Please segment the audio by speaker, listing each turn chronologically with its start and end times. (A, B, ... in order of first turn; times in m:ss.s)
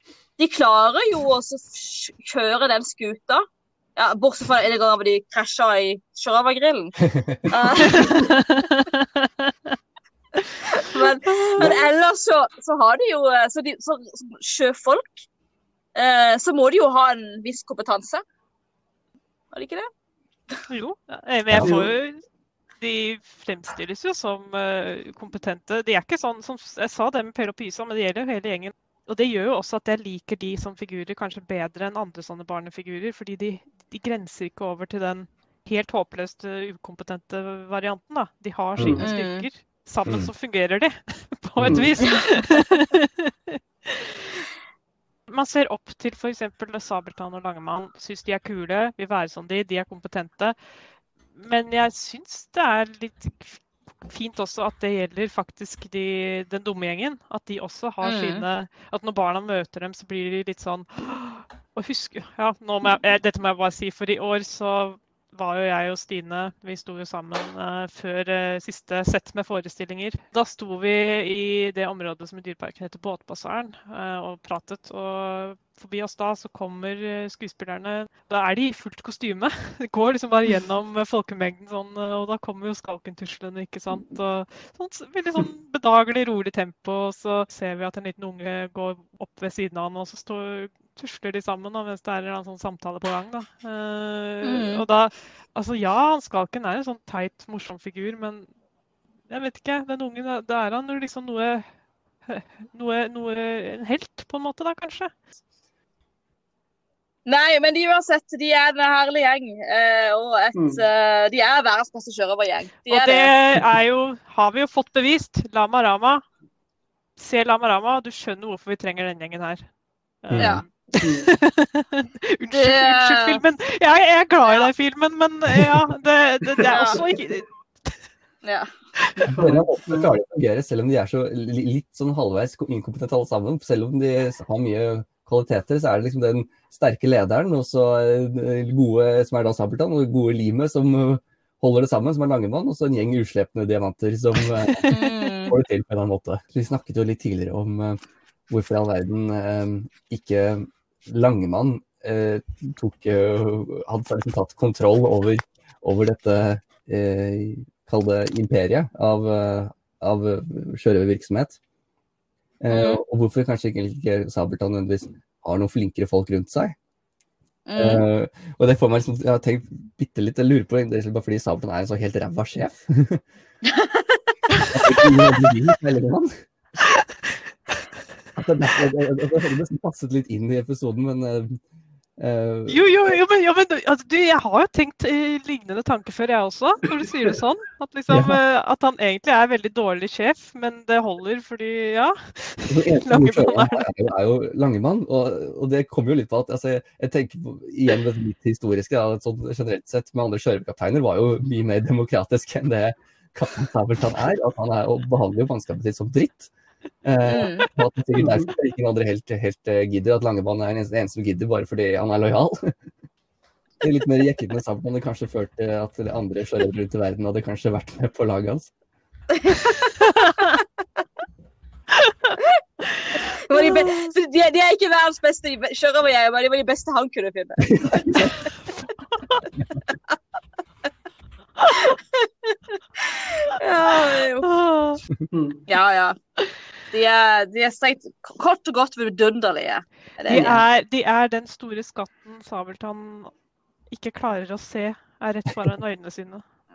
0:00.4-0:03.4 A
0:04.0-0:08.2 A
0:07.8-0:09.5 B
0:10.8-0:15.2 A
0:11.0-0:11.6 B
0:16.0-0:18.2 A
0:19.5-0:19.9 A
0:20.7-0:22.3 B
0:21.5-0:21.8 C
0:21.6-0:21.9 D
0:22.8-0:44.4 B
0:38.8-0:39.1 D
0:39.0-0:39.5 A
0:40.1-0:40.3 C
0:41.6-0:41.9 C
0:45.3-0:50.6 B
0:51.4-1:38.5 B
0:58.0-0:58.4 A
1:34.4-1:34.8 A
1:39.3-1:41.6 B
1:42.3-1:45.1 B
1:47.3-1:53.3 A
1:50.6-1:50.8 D
1:52.9-1:56.2 B
1:57.2-1:59.7 B
2:00.2-2:08.0 B
2:00.3-2:00.6 C
2:00.4-2:00.6 A
2:01.0-2:01.3 D
2:02.5-2:03.4 A
2:06.7-2:07.1 A
2:08.4-2:08.7 A
2:09.0-2:09.3 B
2:09.2-2:10.1 D
2:09.2-2:24.9 C
2:24.6-2:25.1 B
2:24.9-2:25.6 A
2:25.5-2:41.6 C
2:42.6-2:46.8 C
2:42.7-2:43.0 A
2:47.7-2:48.1 A
2:47.8-2:53.2 C
2:53.7-2:54.6 A
2:54.7-2:56.4 C
2:58.4-3:01.6 C
3:02.2-3:02.8 C
3:02.7-3:13.9 B
3:08.1-3:08.4 C
3:12.7-3:26.5 C
3:27.0-3:32.8 C
3:27.2-3:27.7 A
3:28.2-3:28.5 D
3:33.8-3:38.7 C
3:39.4-3:39.9 A
3:40.0-3:40.5 B
3:42.0-3:42.4 B
3:43.5-3:48.1 A
3:43.5-3:44.1 B
3:47.7-3:48.4 C
3:51.7-3:52.6 A
3:53.1-3:54.5 A
3:53.9-3:55.0 B
3:55.3-3:55.6 D
3:55.7-3:56.2 A
3:56.9-4:00.6 A
4:00.3-4:03.3 B
4:03.9-4:06.4 B